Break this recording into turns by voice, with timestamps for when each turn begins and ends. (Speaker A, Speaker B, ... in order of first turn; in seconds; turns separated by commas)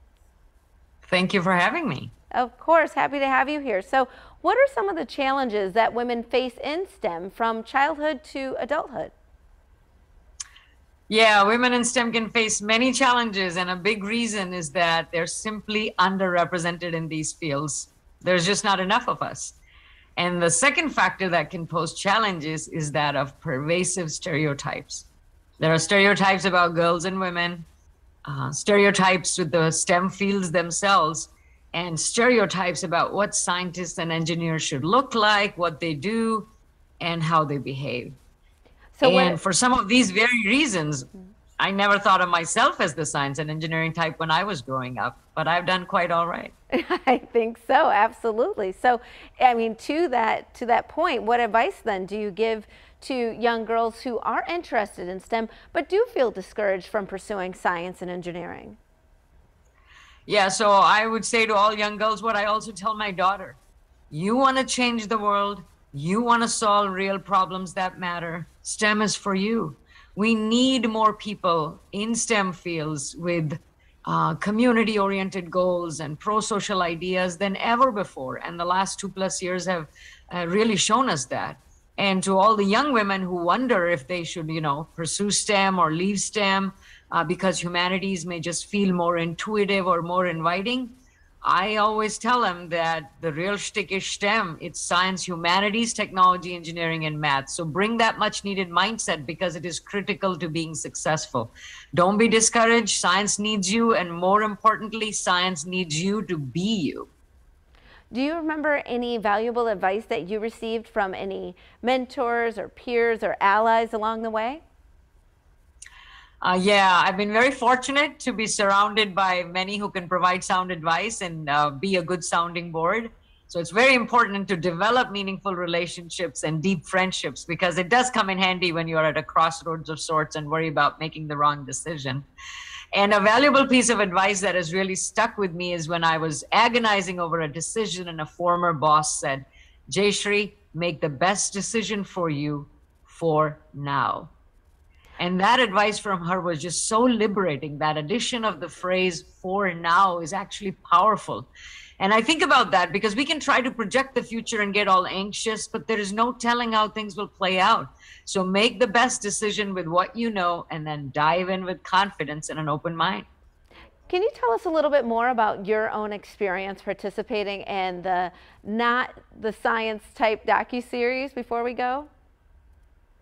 Speaker A: 1.1-2.1, Speaker B: 2.3-9.1, Speaker A: 11.1-19.6, Speaker A: 20.2-25.1, Speaker A: 25.6-27.7, Speaker A: 28.3-36.5, Speaker A: 37.0-38.2, Speaker B: 39.0-39.4, Speaker A: 39.0-46.5, Speaker B: 46.7-58.8, Speaker A: 60.3-63.6, Speaker A: 64.1-107.1, Speaker B: 108.1-114.6, Speaker A: 116.4-132.3, Speaker A: 132.9-144.3, Speaker A: 145.2-151.5, Speaker A: 152.0-163.3, Speaker B: 164.1-172.1